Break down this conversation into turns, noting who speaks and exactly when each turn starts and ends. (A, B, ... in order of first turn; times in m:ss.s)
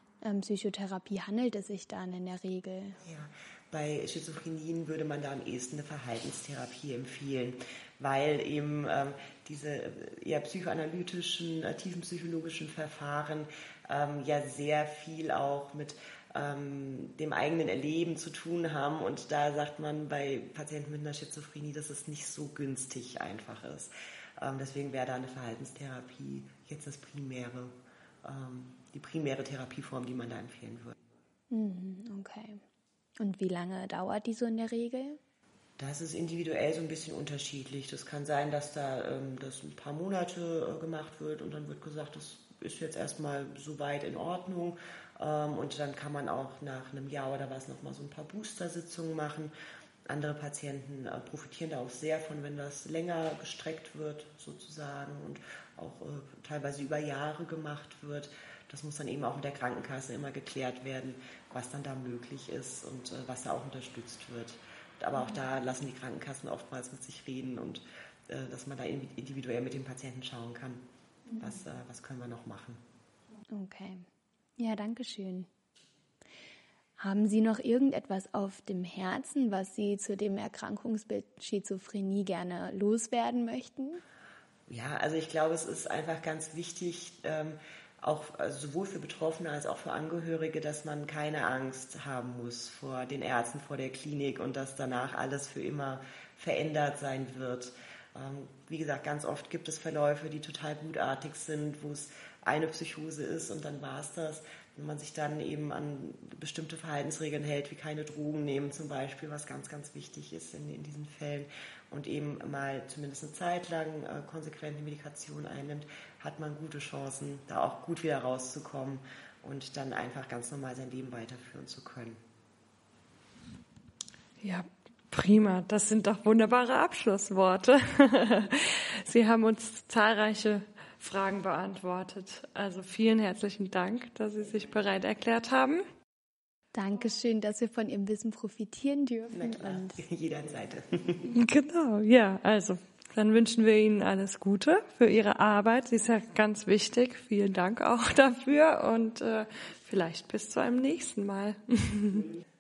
0:00.2-0:03.0 A
0:03.0-0:31.0 B
0:31.5-0:32.6 A
0:33.2-0:35.2 A
0:35.8-0:49.5 B
0:50.1-1:10.8 B
1:11.4-1:12.8 B
1:13.5-1:14.1 A
1:14.6-1:15.5 A
1:17.0-1:24.0 A
1:24.7-2:02.2 B
2:04.4-2:15.8 C
2:16.8-2:20.0 A
2:19.3-2:21.3 B
2:21.3-2:32.3 C